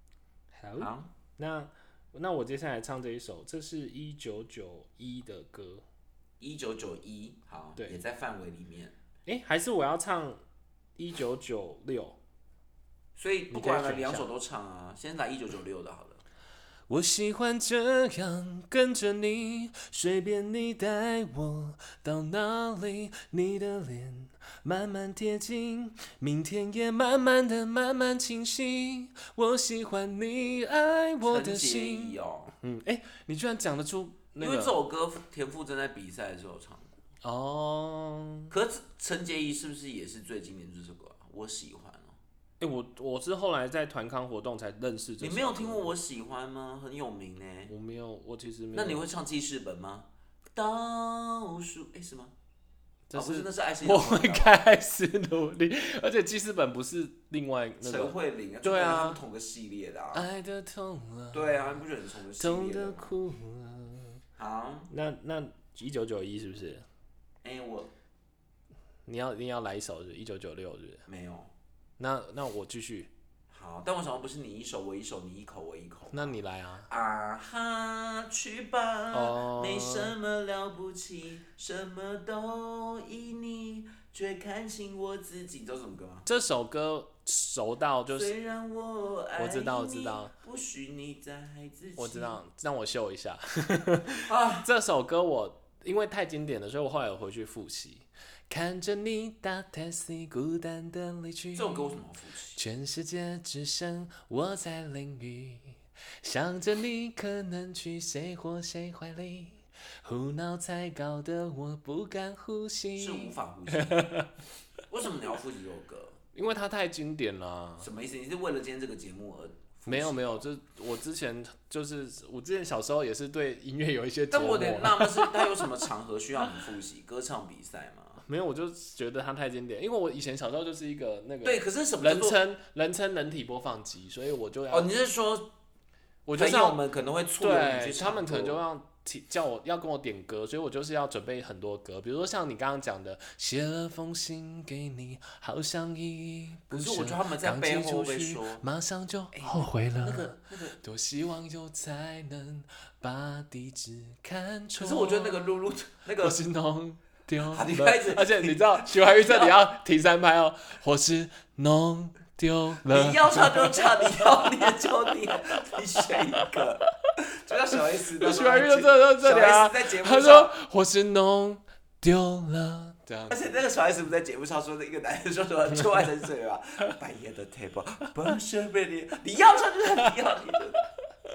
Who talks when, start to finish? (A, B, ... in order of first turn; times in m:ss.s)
0:00.5-0:05.8 A
0:00.8-0:01.1 B
0:06.4-0:09.0 B
0:09.3-0:10.4 A
0:11.0-0:12.2 A
0:13.2-0:16.2 B
0:13.5-0:14.3 A
0:16.9-0:34.8 A
0:31.2-0:32.6 B
0:34.4-0:36.9 B
0:37.2-0:38.5 A
0:38.5-0:42.2 B
0:42.6-0:45.9 A
0:45.2-0:47.7 B
0:47.7-0:49.0 A
0:48.7-0:52.3 B
0:53.1-0:59.2 A
0:53.1-0:54.6 B
0:57.8-1:00.3 B
1:00.1-1:01.8 A
1:01.3-1:03.1 B
1:02.4-1:04.2 A
1:04.4-1:04.9 B
1:04.9-1:06.9 A
1:07.4-1:07.9 B
1:09.1-1:11.0 A
1:11.1-1:11.5 B
1:12.0-1:13.1 A
1:13.5-1:16.4 B
1:16.1-1:16.9 A
1:16.9-1:26.3 B
1:19.1-1:20.1 A
1:26.3-1:28.4 A
1:28.1-1:32.4 B
1:29.4-1:30.3 A
1:32.0-1:42.0 A
1:34.2-1:34.7 B
1:41.6-1:42.6 B
1:42.6-1:54.4 A
1:53.0-1:54.2 B
1:54.9-1:56.2 B
1:56.3-1:57.9 A
1:57.8-2:00.4 B
1:59.9-2:05.7 A
2:04.3-2:08.2 B
2:08.3-2:14.9 A
2:11.4-2:12.4 B
2:14.7-2:15.5 B
2:16.3-2:16.8 A
2:16.4-2:18.6 B
2:17.4-2:35.5 A
2:26.7-2:28.6 B
2:29.3-2:30.8 B
2:34.8-2:36.4 B
2:36.2-2:44.9 A
2:37.4-2:39.6 B
2:42.9-2:50.6 B
2:46.0-2:46.6 A
2:48.2-2:53.5 A
2:53.3-3:00.9 B